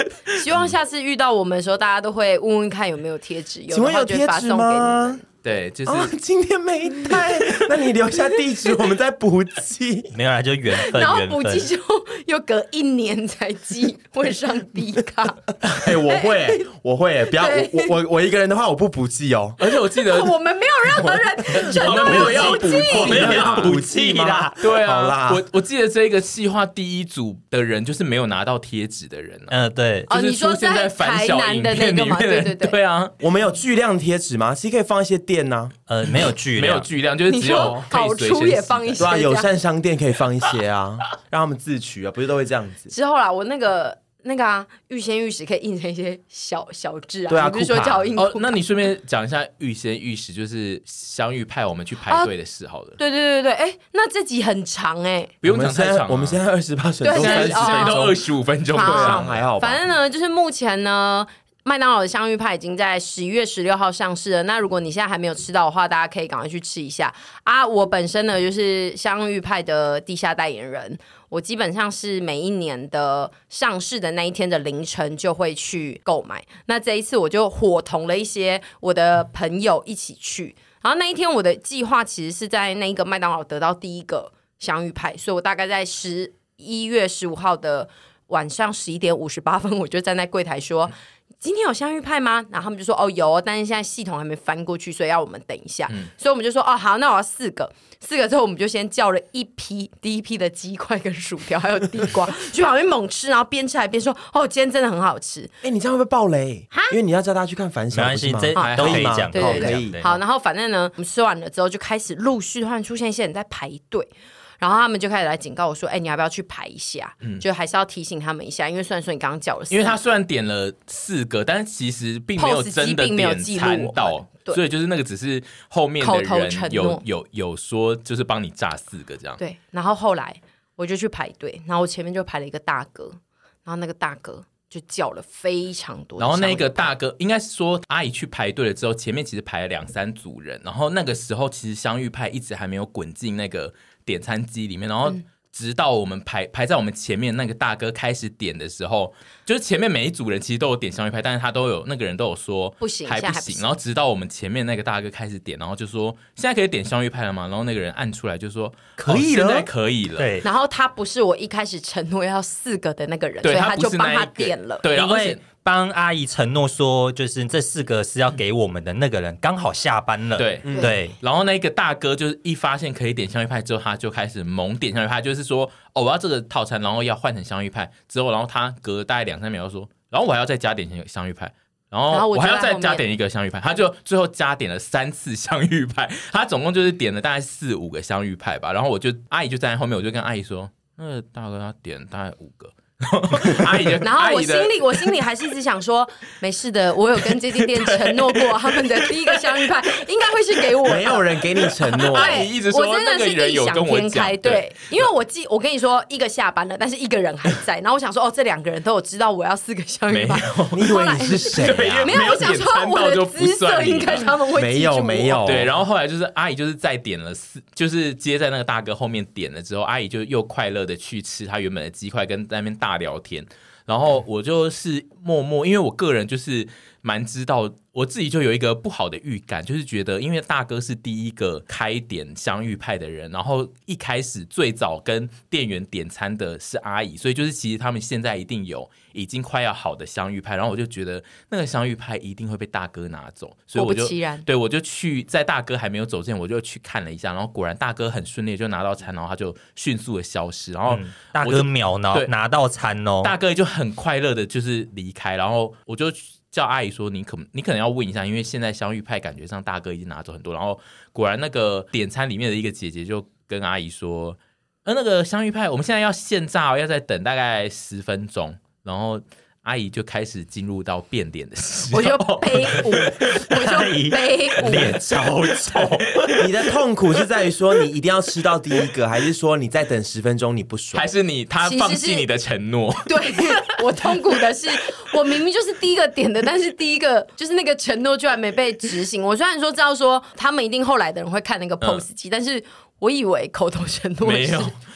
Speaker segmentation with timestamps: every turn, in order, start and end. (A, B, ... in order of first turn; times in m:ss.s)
0:00.3-0:00.7 A
0:00.4-0:05.2 B
0:03.7-0:05.2 C
0:05.4-0:06.1 A
0:05.8-0:10.1 C
0:10.1-0:11.7 D
0:10.7-0:16.6 B
0:15.6-0:19.7 C
0:17.3-0:18.0 B
0:19.6-0:20.3 A
0:20.0-0:23.3 B
0:20.9-0:25.4 C
0:21.5-0:23.9 A
0:22.1-0:24.5 D
0:24.6-0:29.5 A
0:29.5-0:30.1 D
0:30.1-0:32.8 B
0:30.1-0:33.1 A
0:33.2-0:35.7 C
0:35.9-0:36.9 D
0:36.5-0:39.2 A
0:37.3-0:39.5 B
0:39.0-0:42.9 C
0:42.9-0:48.6 B
0:47.3-0:48.1 C
0:48.2-0:53.0 A
0:53.0-0:55.3 B
0:55.4-0:56.4 A
0:55.4-0:58.2 C
0:57.0-0:58.1 B
0:57.2-0:59.4 A
0:58.7-1:45.5 B
0:58.7-0:59.8 C
1:45.6-1:50.0 C
1:47.9-1:50.2 D
1:48.5-2:00.0 B
1:48.6-1:49.2 A
1:59.7-2:09.4 A
2:02.4-2:04.6 B
2:06.0-2:07.0 B
2:09.4-2:16.9 B
2:16.2-2:40.3 A
2:32.8-2:33.6 B
2:39.0-2:39.7 C
2:40.2-2:40.4 D
2:40.4-2:44.8 B
2:43.4-2:45.4 A
2:44.9-2:51.2 D
2:50.4-3:15.2 A
2:50.6-2:50.9 C
2:50.7-2:51.0 B
3:02.1-3:03.0 B
3:14.0-3:35.5 B
3:17.2-3:19.7 A
3:20.8-3:22.5 C
3:21.9-3:25.1 A
3:30.1-3:30.9 A
3:30.7-3:32.4 C
3:31.4-3:34.4 A
3:34.5-3:35.7 C
3:35.4-4:12.3 A
4:03.8-4:04.4 B
4:10.9-4:13.3 D
4:13.2-4:33.6 A
4:31.9-4:35.0 B
4:33.6-4:36.0 D
4:34.6-4:36.4 A
4:36.4-4:41.1 C
4:40.9-4:43.6 A
4:41.6-4:42.2 B
4:43.0-4:54.7 B
4:54.2-4:54.8 A